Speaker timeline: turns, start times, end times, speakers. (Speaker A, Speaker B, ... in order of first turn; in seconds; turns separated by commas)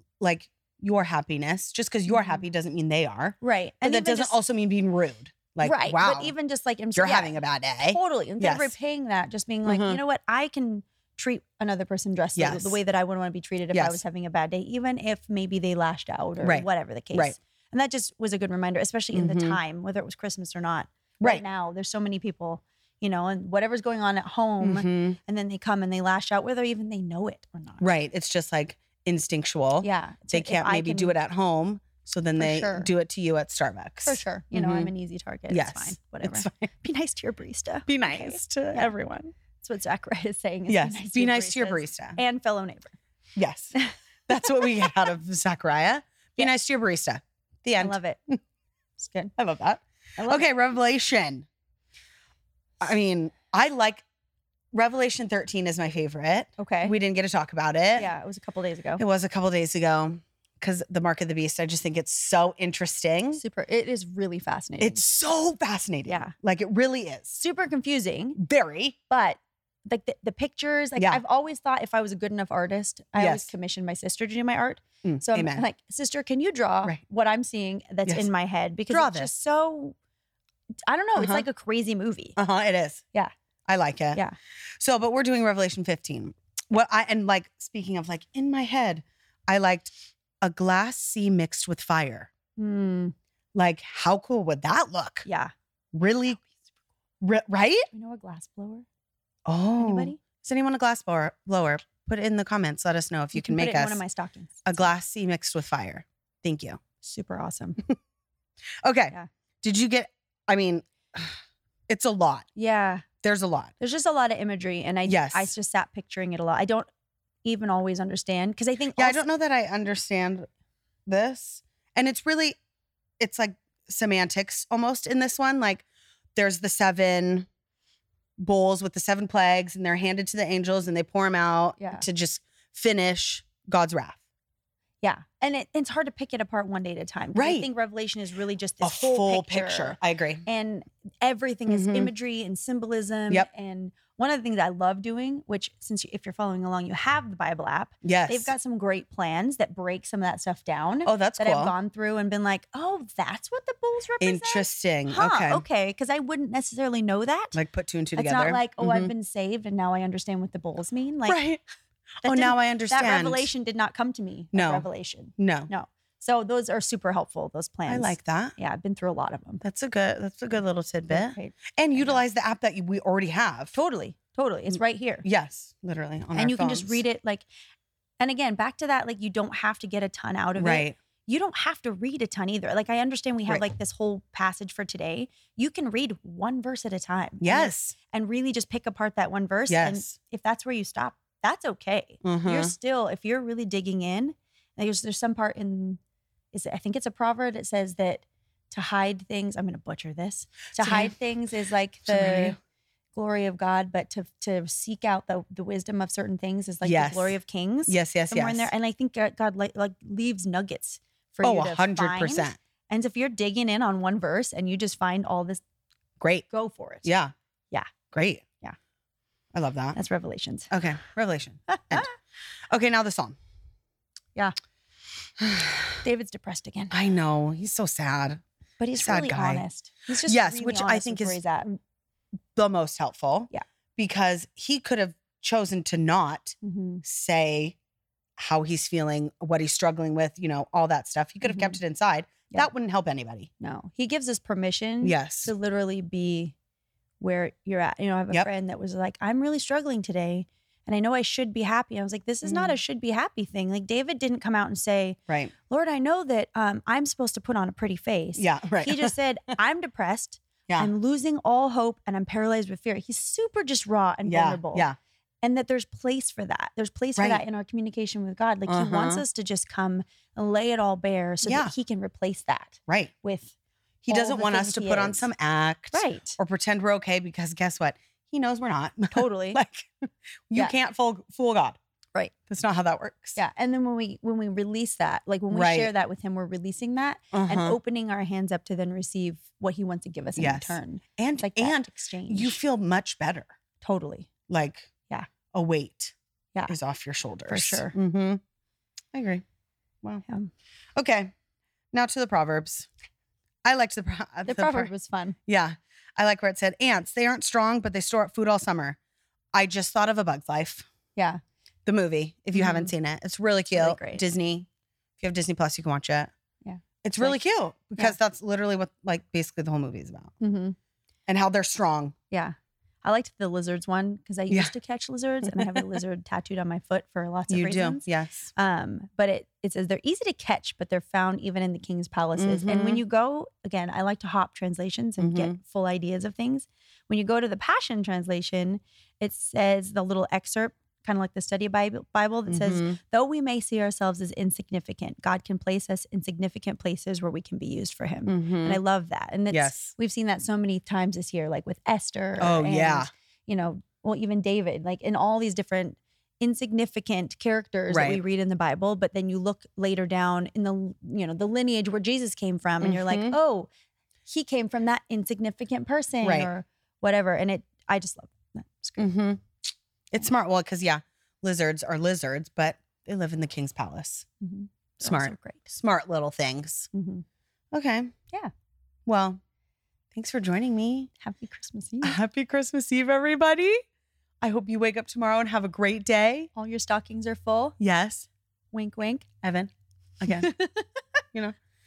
Speaker A: 0.2-6.3, Speaker B: 2.1-2.4, Speaker B: 3.4-4.4, Speaker B: 5.6-27.8, Speaker A: 6.9-8.8, Speaker A: 9.6-10.0, Speaker A: 12.3-12.8, Speaker A: 13.7-14.0, Speaker A: 16.4-17.4, Speaker A: 19.1-19.6, Speaker A: 24.6-25.2, Speaker A: 27.8-34.9, Speaker B: 29.8-31.1, Speaker B: 32.4-32.9, Speaker B: 34.0-42.9, Speaker A: 35.5-36.7, Speaker A: 37.9-39.1, Speaker A: 40.7-42.2, Speaker A: 43.4-43.8, Speaker A: 44.3-48.4, Speaker B: 44.4-44.9, Speaker B: 47.8-48.2, Speaker B: 49.0-49.3, Speaker A: 49.4-51.5, Speaker B: 50.2-50.5, Speaker A: 52.8-54.0, Speaker A: 54.7-58.1, Speaker B: 56.6-56.9, Speaker B: 58.0-59.0, Speaker A: 59.0-63.4, Speaker B: 63.3-65.0, Speaker A: 64.8-67.4, Speaker B: 66.1-66.3, Speaker B: 67.3-68.4, Speaker A: 68.4-69.0, Speaker B: 69.1-80.0, Speaker A: 73.2-73.5, Speaker A: 75.0-75.7, Speaker A: 78.9-79.3, Speaker B: 80.9-82.4, Speaker A: 81.2-81.4, Speaker A: 82.4-83.0, Speaker A: 83.7-84.2, Speaker A: 84.8-92.3, Speaker B: 92.6-93.1, Speaker A: 93.5-95.2, Speaker B: 95.2-95.5, Speaker A: 95.9-96.4, Speaker A: 97.2-97.9, Speaker B: 97.9-98.8, Speaker A: 99.5-104.0, Speaker B: 99.8-100.2, Speaker B: 103.3-104.9, Speaker A: 104.6-106.8, Speaker B: 107.0-107.8, Speaker A: 108.8-111.4, Speaker A: 111.9-112.5, Speaker B: 112.5-113.0, Speaker A: 113.2-113.7, Speaker B: 113.8-116.9, Speaker A: 115.0-115.5, Speaker B: 117.4-119.2, Speaker A: 119.0-120.5, Speaker A: 121.1-122.6, Speaker A: 123.2-125.8, Speaker A: 126.3-127.5, Speaker A: 128.4-134.2, Speaker B: 131.8-132.0, Speaker B: 135.0-157.6, Speaker A: 137.3-137.7, Speaker A: 138.8-140.4, Speaker A: 141.7-142.1, Speaker A: 148.0-148.5, Speaker A: 151.0-151.7, Speaker A: 154.2-155.6, Speaker A: 157.5-159.1, Speaker B: 158.1-161.4, Speaker A: 161.2-161.6, Speaker A: 162.2-163.5, Speaker B: 162.2-169.6, Speaker A: 164.5-164.9, Speaker A: 165.4-165.7, Speaker A: 167.9-168.5, Speaker A: 169.6-173.7, Speaker B: 171.1-172.2, Speaker B: 173.7-175.2, Speaker A: 175.2-177.0, Speaker B: 176.3-177.4, Speaker B: 178.2-196.0, Speaker A: 180.6-181.0, Speaker A: 187.4-187.9, Speaker A: 189.7-190.1, Speaker A: 192.2-192.7, Speaker B: 196.5-202.6, Speaker A: 200.8-201.1, Speaker A: 202.1-202.6, Speaker B: 203.1-215.6, Speaker A: 206.8-208.7, Speaker A: 211.4-212.6, Speaker A: 216.2-216.5, Speaker B: 216.5-217.1, Speaker A: 217.0-217.3, Speaker A: 218.1-218.4, Speaker A: 219.5-220.0, Speaker B: 219.9-220.7, Speaker A: 220.7-222.1, Speaker B: 221.7-222.1, Speaker A: 222.7-223.4, Speaker A: 225.4-225.9, Speaker B: 226.0-227.0, Speaker A: 226.9-228.4, Speaker B: 228.8-231.8, Speaker A: 228.9-229.6, Speaker A: 230.2-231.4, Speaker A: 232.5-237.8, Speaker B: 236.6-237.0, Speaker A: 238.4-243.5, Speaker B: 241.4-241.8, Speaker B: 243.6-246.5, Speaker A: 245.0-245.5, Speaker B: 247.2-264.9, Speaker A: 252.4-252.8, Speaker A: 258.4-259.1, Speaker A: 264.2-264.9, Speaker B: 265.4-273.5, Speaker A: 267.2-267.4, Speaker A: 268.7-269.2, Speaker A: 271.4-271.7, Speaker A: 274.0-281.8, Speaker B: 274.1-275.3, Speaker B: 275.9-276.4, Speaker B: 279.1-279.6, Speaker A: 282.5-283.4, Speaker B: 283.4-292.6, Speaker A: 285.5-285.9, Speaker A: 287.3-287.8, Speaker A: 290.4-293.5, Speaker B: 293.8-294.3, Speaker A: 294.5-294.9, Speaker A: 295.5-296.1, Speaker A: 296.7-298.4, Speaker B: 297.5-297.9, Speaker A: 299.1-299.4, Speaker A: 300.9-301.3, Speaker A: 301.9-302.9, Speaker A: 303.6-304.9, Speaker B: 304.4-305.4, Speaker A: 305.5-309.0, Speaker A: 309.5-310.9, Speaker B: 311.1-311.4, Speaker A: 311.9-314.7, Speaker B: 312.5-312.9, Speaker B: 313.7-314.3, Speaker A: 315.2-316.3, Speaker B: 316.6-317.4, Speaker A: 317.0-320.3, Speaker B: 320.4-320.8, Speaker A: 321.3-322.1, Speaker B: 322.3-363.7, Speaker A: 325.4-326.0, Speaker A: 327.5-328.5, Speaker A: 332.4-333.0, Speaker A: 335.2-335.5, Speaker A: 342.5-343.0, Speaker A: 348.2-348.8, Speaker A: 349.5-349.9, Speaker A: 352.4-353.1, Speaker A: 357.9-358.2, Speaker A: 362.8-363.4, Speaker B: 364.3-369.1, Speaker A: 366.2-366.5, Speaker A: 369.0-369.4, Speaker A: 370.1-374.2, Speaker B: 374.4-375.7, Speaker A: 375.0-376.9, Speaker B: 376.9-377.2, Speaker A: 377.7-378.1, Speaker A: 379.1-379.4, Speaker A: 380.1-381.1, Speaker B: 381.2-382.2, Speaker A: 382.0-383.8, Speaker A: 384.4-386.5, Speaker B: 386.5-387.7, Speaker A: 387.8-388.3, Speaker B: 388.7-389.3, Speaker A: 389.4-390.5, Speaker B: 390.2-390.9